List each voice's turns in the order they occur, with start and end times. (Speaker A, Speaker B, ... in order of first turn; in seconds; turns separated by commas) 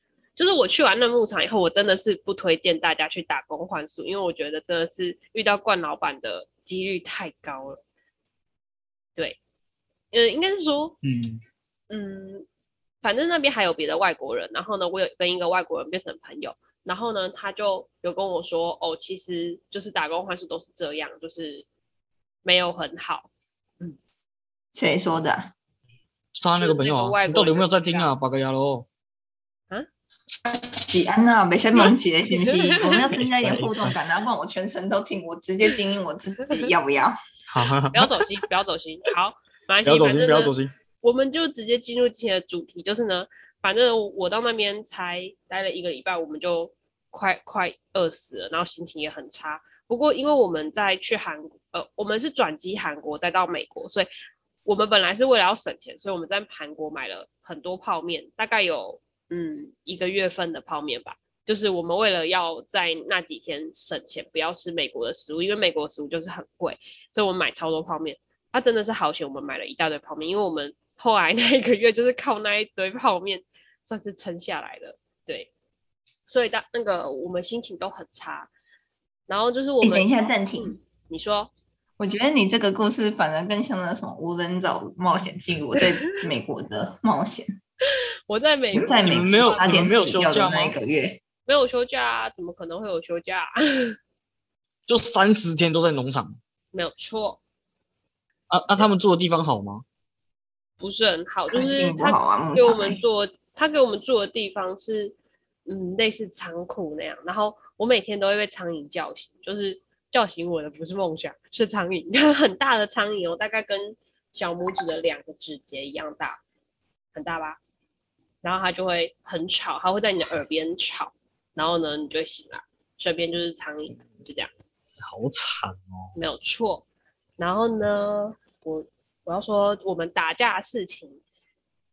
Speaker A: 0.4-7.8, Speaker A: 10.1-11.0, Speaker B: 11.0-11.4, Speaker A: 11.9-12.5, Speaker A: 13.0-21.7, Speaker A: 22.4-23.3, Speaker C: 24.7-25.5, Speaker B: 26.4-28.9, Speaker A: 26.6-28.1, Speaker C: 30.4-37.2, Speaker A: 32.4-33.0, Speaker B: 32.9-33.9, Speaker B: 37.5-38.1, Speaker A: 37.9-54.1, Speaker B: 39.9-40.7, Speaker A: 54.6-75.5, Speaker A: 76.3-78.5, Speaker A: 79.3-81.5, Speaker C: 79.8-80.8, Speaker C: 82.0-87.5, Speaker A: 85.8-86.1, Speaker A: 88.3-89.9, Speaker C: 88.7-91.2, Speaker B: 89.1-90.8, Speaker A: 91.5-93.9, Speaker B: 94.9-96.4, Speaker A: 96.7-97.4, Speaker B: 98.5-99.8, Speaker A: 100.8-105.1, Speaker C: 101.5-103.0, Speaker A: 105.7-116.4, Speaker A: 117.1-117.6, Speaker A: 118.4-124.5, Speaker B: 125.0-126.1, Speaker A: 126.2-126.8, Speaker A: 127.4-131.2